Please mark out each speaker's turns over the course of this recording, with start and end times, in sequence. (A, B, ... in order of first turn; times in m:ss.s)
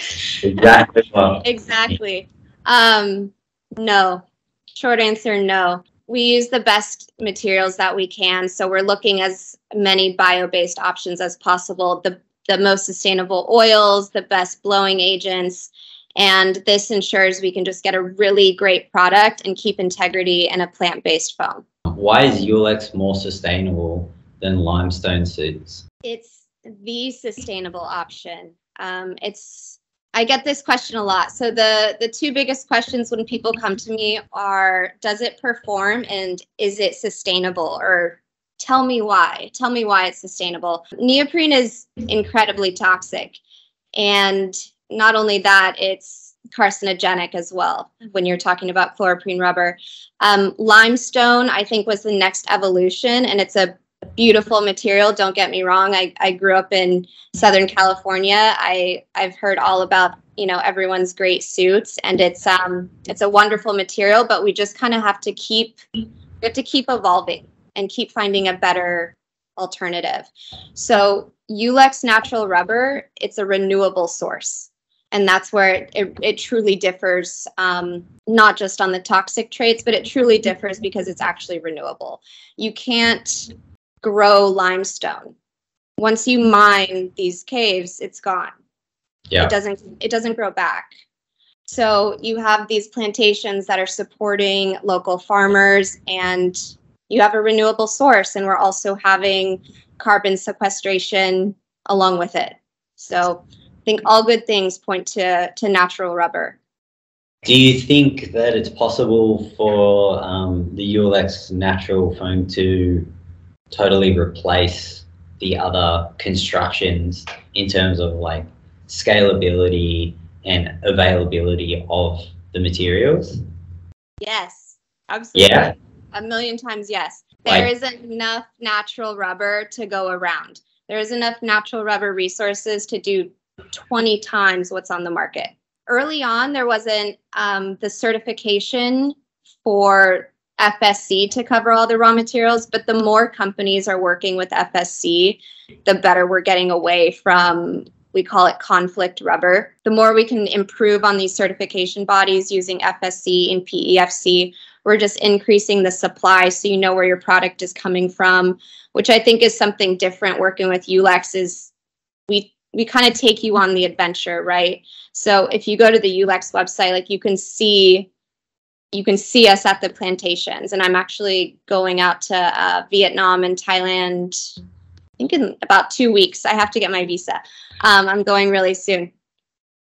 0:00.4-0:01.4 A
0:01.4-0:21.6 B
0:21.9-0:25.8 A
0:26.0-0:43.4 B
0:44.0-1:05.8 B
1:06.4-1:25.3 B
1:26.0-1:28.5 B
1:29.4-1:30.9 B
1:31.7-1:46.6 B
1:47.4-1:53.1 A
1:53.7-2:03.4 A
2:04.2-2:41.7 B
2:05.3-2:05.7 A
2:42.3-2:48.1 B
2:48.9-2:54.4 B
2:55.2-2:59.1 B